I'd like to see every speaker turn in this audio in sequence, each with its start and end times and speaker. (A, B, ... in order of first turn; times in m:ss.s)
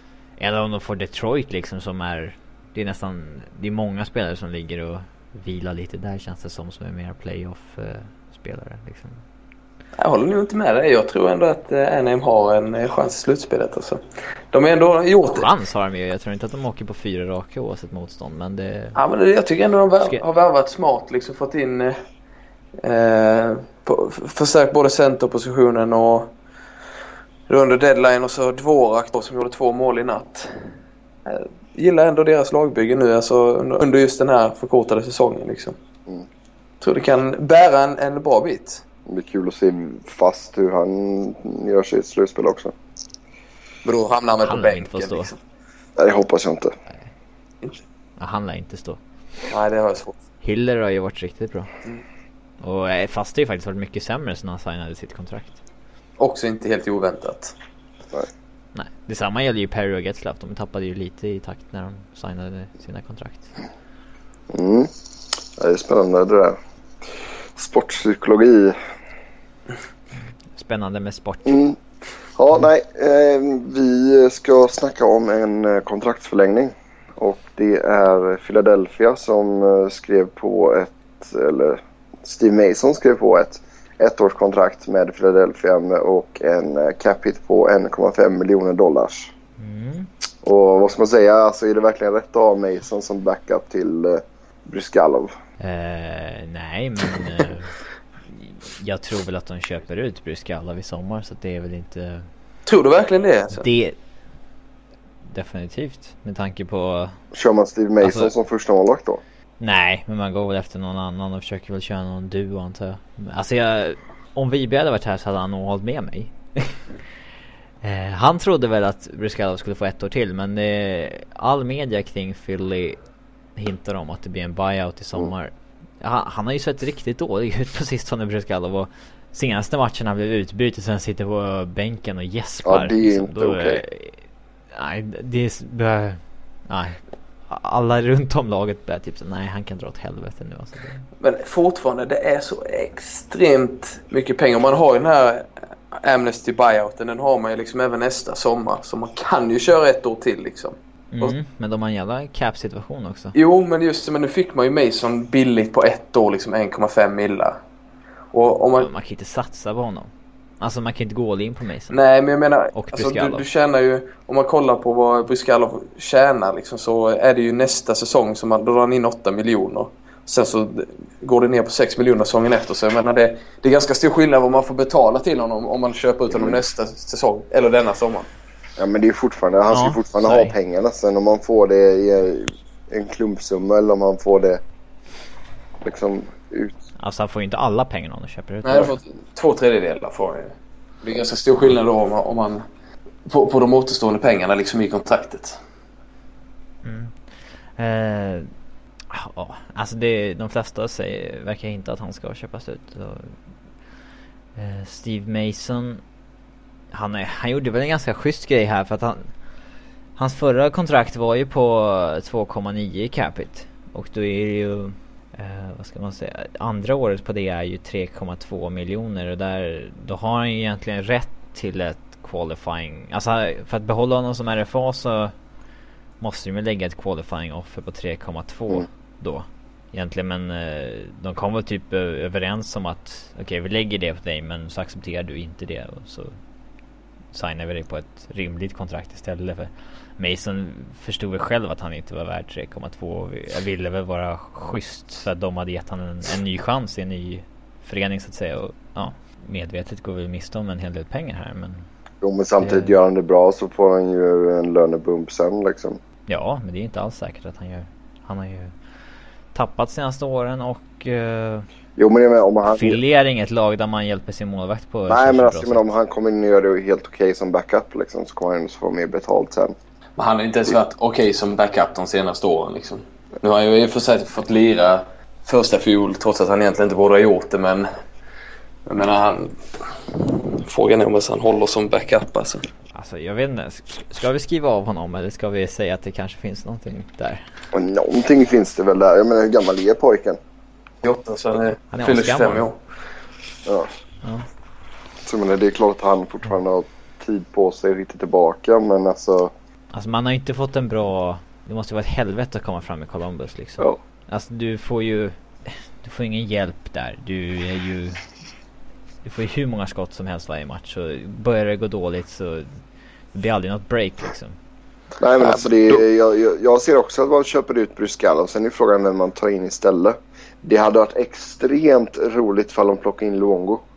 0:00.4-0:09.2 A
0:10.0-0:15.5 B
0:15.3-0:19.0 A
0:19.0-0:22.0 B
0:22.8-0:26.3 B
0:27.5-0:30.7 B
0:31.2-0:35.8 B
0:36.8-0:38.8 B
0:39.1-0:42.7 C
0:43.8-0:45.4 B
0:44.4-0:45.3 A
0:46.0-0:46.7 C
0:48.2-0:49.0 A
0:49.5-0:50.2 B
0:50.4-0:51.7 A
0:52.6-0:55.6 A
0:56.2-0:57.5 B
0:58.8-1:03.5 A
1:04.5-1:04.9 C
1:05.6-1:06.6 C
1:07.6-1:08.8 C
1:10.6-1:11.6 A
1:11.5-1:11.8 C
1:12.4-1:29.3 C
1:29.6-1:30.1 A
1:30.4-1:35.3 C
1:35.6-1:37.7 A
1:38.3-1:42.3 A
1:42.7-1:43.7 B
1:43.5-1:44.0 A
1:45.3-1:47.2 A
1:47.3-1:49.2 C
1:48.0-1:48.3 A
1:49.6-1:56.9 A
1:57.8-2:03.0 A
2:03.6-2:21.0 A
2:12.6-2:13.8 C
2:21.2-2:31.3 B
2:31.1-2:33.4 A
2:33.4-2:37.6 B
2:38.3-2:38.9 B
2:38.8-2:42.0 A
2:41.9-2:58.3 B
2:42.7-2:43.4 A
2:56.3-2:56.6 C
2:58.8-3:04.6 C
2:59.7-3:00.6 A
3:05.8-3:06.8 C
3:07.0-3:09.0 A
3:08.6-3:12.6 B
3:13.3-3:15.6 B
3:16.8-3:18.5 A
3:19.1-3:23.3 A
3:24.6-3:26.0 A
3:26.9-3:29.3 A
3:30.2-3:45.4 A
3:46.2-3:56.3 A
3:57.3-4:11.8 A
4:12.2-4:16.0 C
4:12.6-4:13.0 A
4:16.3-4:18.8 A
4:19.5-4:21.7 A
4:22.0-4:23.0 C
4:22.6-4:25.9 A
4:25.1-4:29.8 C
4:30.2-4:37.9 B
4:38.9-4:42.7 B
4:42.9-4:47.4 A
4:47.7-4:50.4 C
4:51.0-4:52.8 B
4:51.9-4:52.7 A
4:55.2-4:59.5 C
4:59.9-5:08.2 A
5:09.2-5:12.7 A
5:13.3-5:14.6 A
5:15.2-5:23.8 C
5:15.4-5:15.7 B